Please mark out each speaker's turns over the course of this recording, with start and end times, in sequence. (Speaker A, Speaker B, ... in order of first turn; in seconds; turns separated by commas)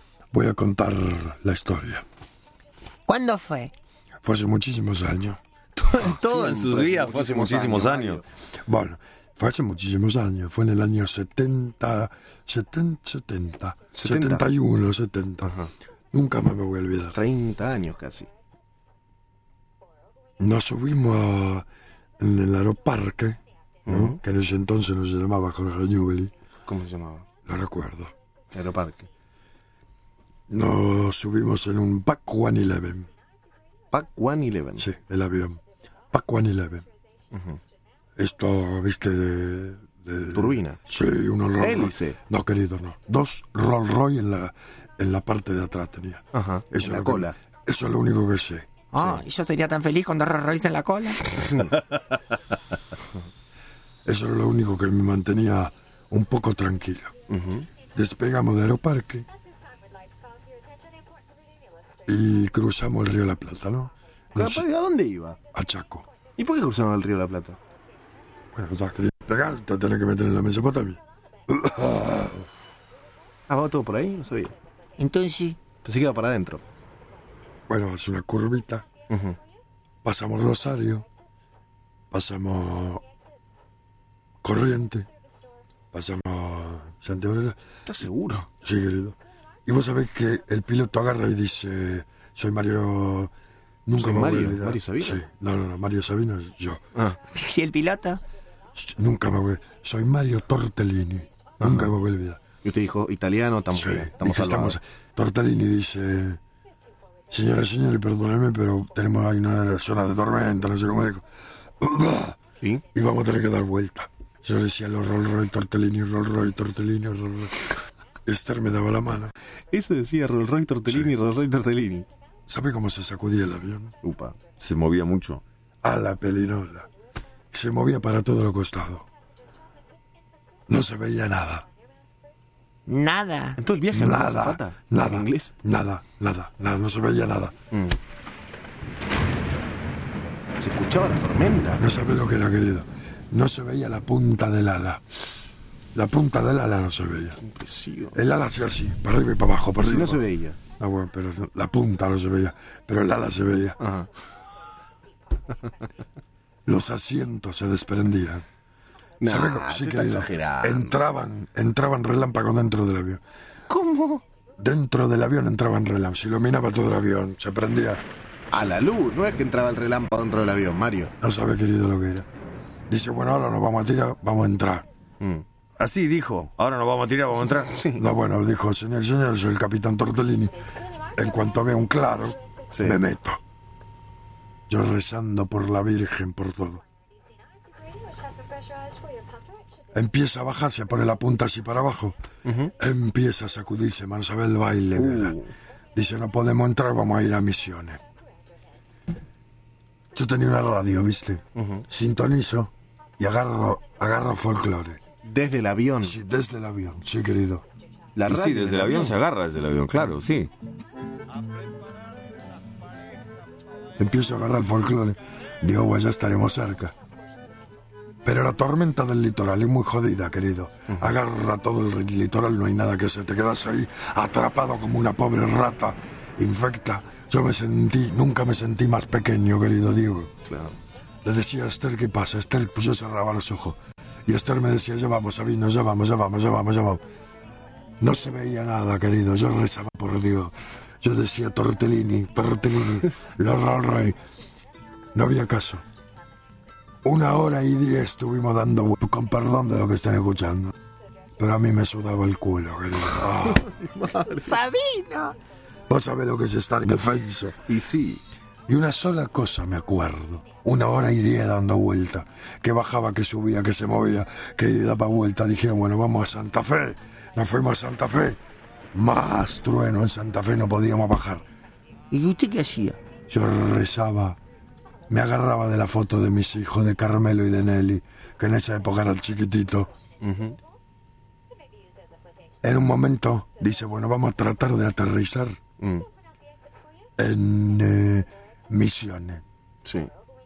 Speaker A: 0.3-2.0, Speaker B: 3.1-3.7, Speaker A: 4.2-5.4, Speaker C: 5.9-8.2, Speaker D: 6.0-8.2, Speaker A: 8.6-15.6, Speaker C: 13.9-14.4, Speaker C: 15.4-15.7, Speaker A: 16.1-17.2, Speaker C: 17.1-18.3, Speaker A: 20.4-21.7, Speaker A: 22.2-26.3, Speaker C: 23.9-24.2, Speaker C: 26.7-27.2, Speaker A: 27.5-28.1, Speaker C: 28.5-29.1, Speaker A: 30.5-33.1, Speaker C: 33.9-34.9, Speaker A: 34.8-35.6, Speaker A: 36.1-36.9, Speaker C: 37.3-37.6, Speaker A: 38.2-48.7, Speaker C: 40.3-40.8, Speaker C: 41.6-42.2, Speaker C: 46.3-47.4, Speaker B: 48.9-51.5, Speaker C: 49.0-49.2, Speaker C: 51.4-51.8, Speaker A: 54.1-57.1, Speaker C: 57.3-57.7, Speaker A: 57.9-59.3, Speaker A: 62.1-64.7, Speaker C: 64.4-65.4, Speaker A: 65.5-66.1, Speaker C: 66.3-67.6, Speaker A: 68.5-72.5, Speaker C: 73.5-74.5, Speaker B: 75.0-75.6, Speaker C: 75.8-76.6, Speaker A: 77.7-78.9, Speaker C: 79.1-79.4, Speaker A: 80.0-81.1, Speaker A: 82.1-83.0, Speaker A: 84.4-85.1, Speaker A: 85.9-87.6, Speaker C: 87.9-88.5, Speaker A: 88.6-93.3, Speaker A: 93.9-96.8, Speaker C: 93.9-95.2, Speaker B: 97.3-98.2, Speaker A: 98.8-102.4, Speaker C: 101.6-101.9, Speaker C: 102.6-104.8, Speaker A: 103.7-106.4, Speaker A: 107.3-111.2, Speaker A: 111.8-112.4, Speaker A: 112.9-117.7, Speaker A: 118.3-119.3, Speaker C: 119.7-122.1, Speaker A: 122.5-123.9, Speaker C: 124.0-124.4, Speaker D: 124.6-125.4, Speaker A: 125.8-126.9, Speaker A: 127.5-129.1, Speaker A: 130.7-131.7, Speaker B: 132.9-133.6, Speaker C: 133.6-135.5, Speaker A: 133.9-137.6, Speaker C: 137.7-138.0, Speaker C: 140.6-141.8, Speaker A: 141.8-145.0, Speaker A: 145.9-147.4, Speaker C: 147.4-148.2, Speaker A: 148.2-150.2, Speaker C: 149.8-150.6, Speaker A: 150.8-153.8, Speaker C: 153.8-154.1, Speaker A: 156.7-158.4, Speaker C: 159.2-161.0, Speaker A: 159.2-163.2, Speaker C: 163.7-164.2, Speaker A: 164.6-168.0, Speaker C: 168.5-171.1, Speaker A: 171.2-172.3, Speaker A: 172.9-174.9, Speaker D: 175.8-177.9, Speaker C: 177.4-178.0, Speaker A: 178.0-180.6, Speaker A: 181.2-183.4, Speaker C: 182.7-183.0, Speaker A: 184.7-186.8, Speaker A: 189.9-192.2, Speaker C: 192.4-192.7, Speaker A: 192.8-195.4, Speaker C: 194.9-195.5, Speaker A: 195.9-198.0, Speaker A: 200.1-205.0, Speaker C: 201.6-201.8, Speaker C: 205.2-206.2, Speaker A: 206.0-207.7, Speaker C: 208.2-209.2, Speaker D: 208.3-210.5, Speaker A: 214.0-216.9, Speaker A: 218.2-230.3, Speaker C: 230.5-230.8, Speaker A: 231.2-237.0, Speaker A: 238.0-244.2, Speaker A: 245.2-245.8, Speaker A: 247.0-250.7, Speaker A: 251.4-253.7, Speaker C: 253.4-254.7, Speaker B: 254.3-255.4, Speaker A: 255.9-257.6, Speaker C: 257.7-258.2, Speaker A: 258.7-268.4, Speaker A: 268.9-271.4, Speaker B: 272.1-273.0, Speaker A: 273.3-274.4, Speaker A: 275.1-279.9, Speaker C: 280.2-280.6, Speaker A: 282.6-285.6, Speaker C: 285.8-286.1, Speaker A: 287.2-289.4, Speaker C: 289.9-290.1